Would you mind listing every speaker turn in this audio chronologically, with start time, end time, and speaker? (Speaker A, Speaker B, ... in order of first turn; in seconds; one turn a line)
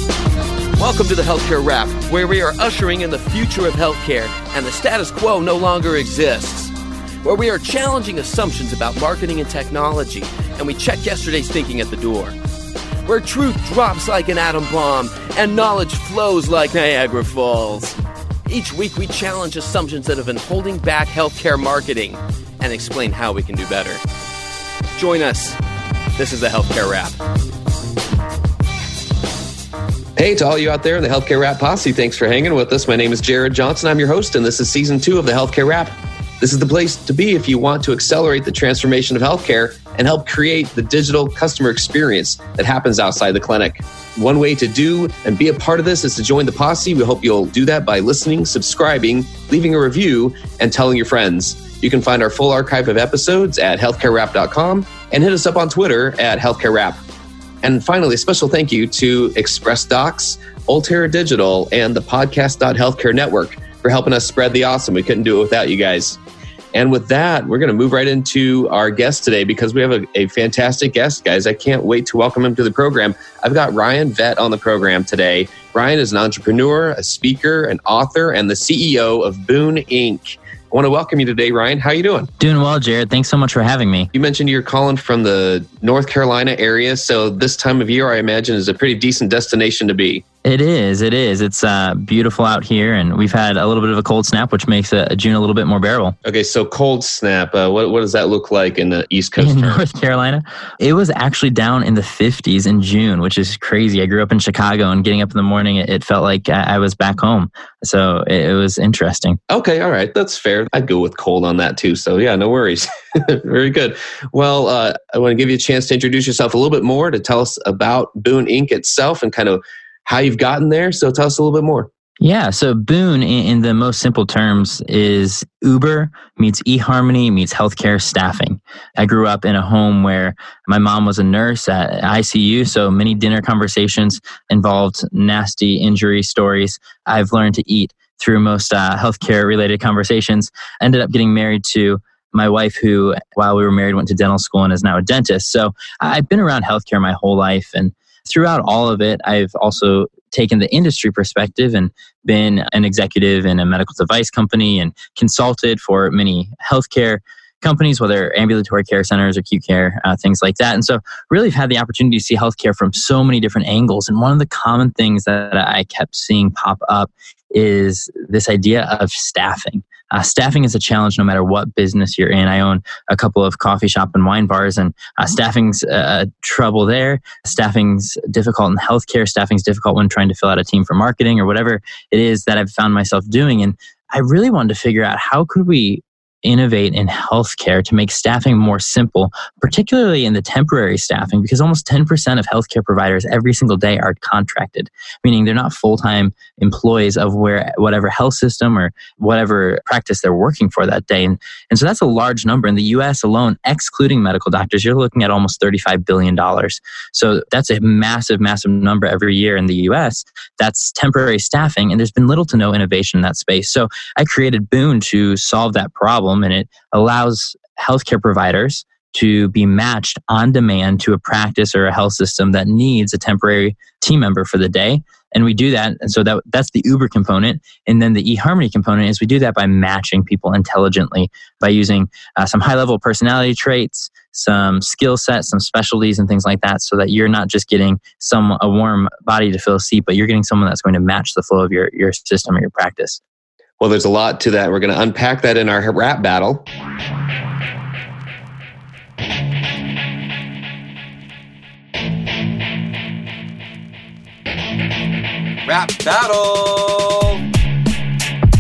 Speaker A: 0.8-12.3
Speaker A: 13.1-24.0
Speaker A: 25.0-25.6
Speaker A: 26.2-27.2
Speaker B: 30.2-57.0
Speaker B: 57.6-66.2
Speaker B: 66.7-82.3
Speaker C: 82.4-84.1
Speaker B: 84.1-90.2
Speaker C: 90.4-96.2
Speaker B: 96.2-99.8
Speaker C: 99.4-109.4
Speaker B: 109.5-121.9
Speaker C: 122.2-243.2
Speaker B: 243.8-246.7
Speaker A: 255.7-257.4